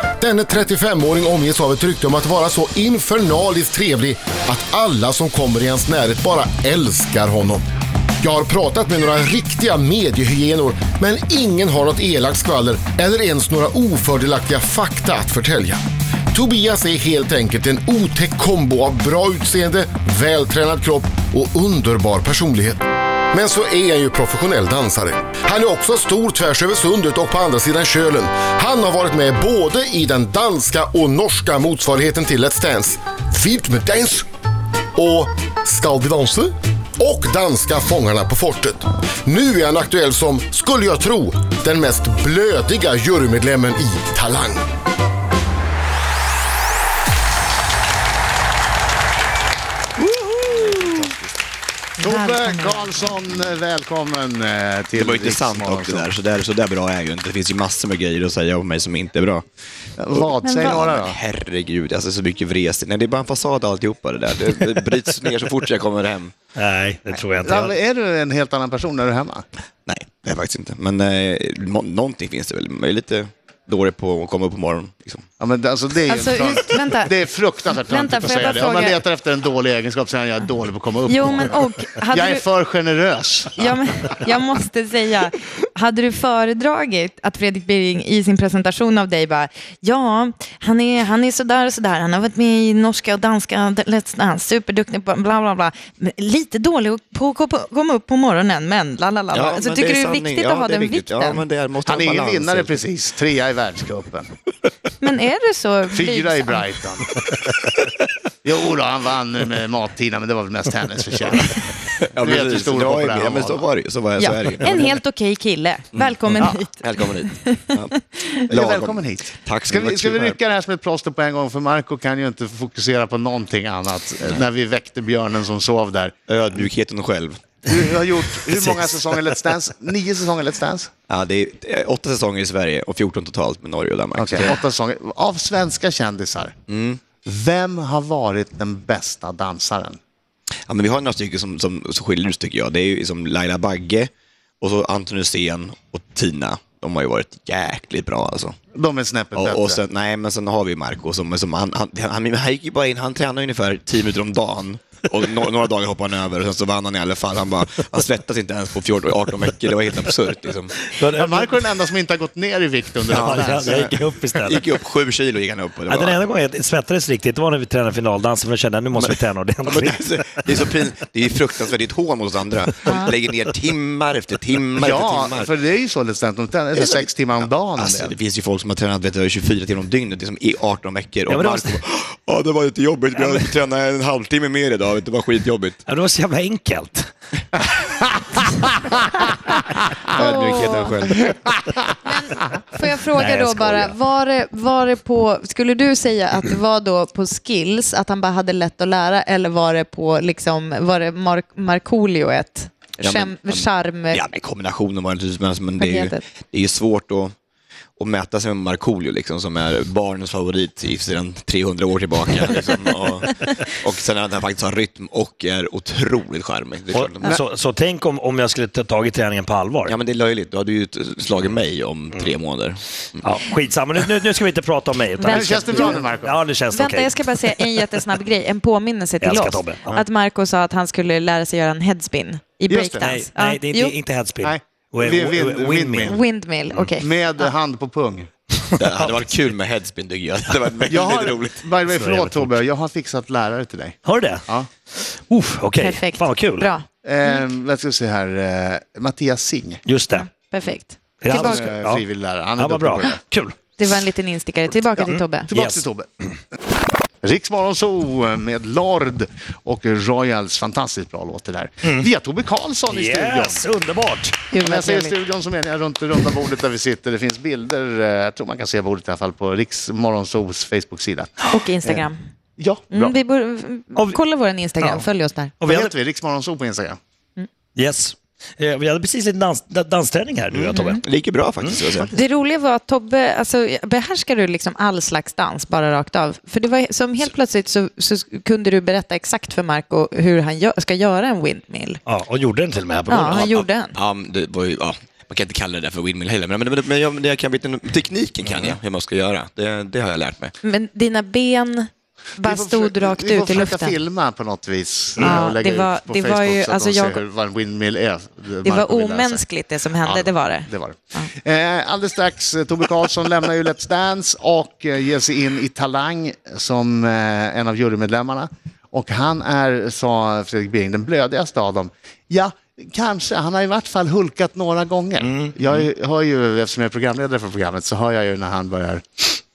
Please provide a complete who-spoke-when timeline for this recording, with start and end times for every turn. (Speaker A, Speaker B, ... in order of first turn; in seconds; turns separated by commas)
Speaker A: 0.2-7.6, Speaker A: 8.2-15.8, Speaker A: 16.3-22.8, Speaker A: 23.3-34.2, Speaker A: 35.0-44.6, Speaker B: 50.2-51.3, Speaker C: 52.0-53.0, Speaker D: 52.0-56.1, Speaker B: 55.0-59.4, Speaker D: 60.0-61.2, Speaker B: 60.1-66.3, Speaker C: 60.4-60.9, Speaker E: 66.5-67.7, Speaker D: 67.4-69.4, Speaker B: 69.9-75.2, Speaker D: 75.4-83.7, Speaker C: 76.1-77.1, Speaker C: 77.9-79.0, Speaker C: 81.0-82.4, Speaker C: 83.6-101.4, Speaker B: 99.3-102.8, Speaker D: 101.8-104.3, Speaker C: 105.0-106.6, Speaker D: 105.9-107.2, Speaker D: 108.4-113.7, Speaker B: 111.9-114.9, Speaker C: 114.2-118.4, Speaker B: 115.9-120.4, Speaker D: 118.5-126.1, Speaker B: 126.3-127.6, Speaker D: 127.6-130.9, Speaker B: 131.1-134.6, Speaker D: 134.1-136.5, Speaker B: 136.7-137.0, Speaker D: 137.2-140.0, Speaker B: 140.7-144.1, Speaker B: 144.6-148.6, Speaker D: 148.7-149.8, Speaker B: 149.4-160.7, Speaker E: 160.9-161.6, Speaker D: 161.1-163.9, Speaker E: 163.1-164.7, Speaker B: 163.1-166.3, Speaker E: 165.8-170.6, Speaker B: 169.0-175.5, Speaker C: 172.8-173.1, Speaker D: 174.8-178.1, Speaker B: 176.7-185.8, Speaker E: 181.3-181.8, Speaker E: 185.9-187.1, Speaker D: 188.2-189.5, Speaker C: 190.1-190.9, Speaker B: 190.1-191.4, Speaker D: 191.3-191.9, Speaker C: 192.0-204.2, Speaker E: 193.1-193.7, Speaker B: 193.6-193.9, Speaker B: 203.0-207.3, Speaker C: 205.8-206.2, Speaker B: 208.0-217.3, Speaker E: 216.9-219.9, Speaker B: 219.9-223.2, Speaker E: 223.2-227.9, Speaker C: 225.2-226.1, Speaker D: 225.2-226.4, Speaker C: 226.7-233.9, Speaker E: 229.2-230.0, Speaker D: 232.7-233.1, Speaker E: 233.0-236.9, Speaker D: 234.4-236.2, Speaker C: 236.0-237.5, Speaker D: 236.9-238.3, Speaker E: 238.6-239.0, Speaker B: 238.8-241.6, Speaker D: 240.9-244.7, Speaker E: 241.8-242.6, Speaker E: 244.0-244.4, Speaker E: 244.9-246.7, Speaker C: 245.8-246.8, Speaker D: 247.0-249.8, Speaker E: 249.8-250.2, Speaker C: 250.1-251.6, Speaker E: 251.2-253.7, Speaker D: 251.3-253.2, Speaker C: 253.8-255.5, Speaker E: 255.0-255.8, Speaker D: 255.5-256.1, Speaker D: 257.2-263.6, Speaker E: 262.9-264.5, Speaker C: 264.5-265.2, Speaker D: 264.6-272.1, Speaker C: 271.4-272.2, Speaker D: 272.6-273.1, Speaker C: 272.9-275.5, Speaker E: 273.9-274.2, Speaker E: 274.8-275.1, Speaker E: 275.6-275.9, Speaker D: 275.6-277.0, Speaker E: 277.8-281.0, Speaker B: 280.5-282.1, Speaker C: 280.7-281.0, Speaker E: 281.6-282.1, Speaker C: 282.1-292.0, Speaker E: 292.1-293.6, Speaker C: 293.1-294.0, Speaker B: 293.2-300.5, Speaker E: 298.4-298.8, Speaker C: 300.6-304.0, Speaker D: 302.4-309.4, Speaker C: 305.2-307.2, Speaker C: 308.6-311.3, Speaker D: 310.0-329.4, Speaker E: 325.2-325.5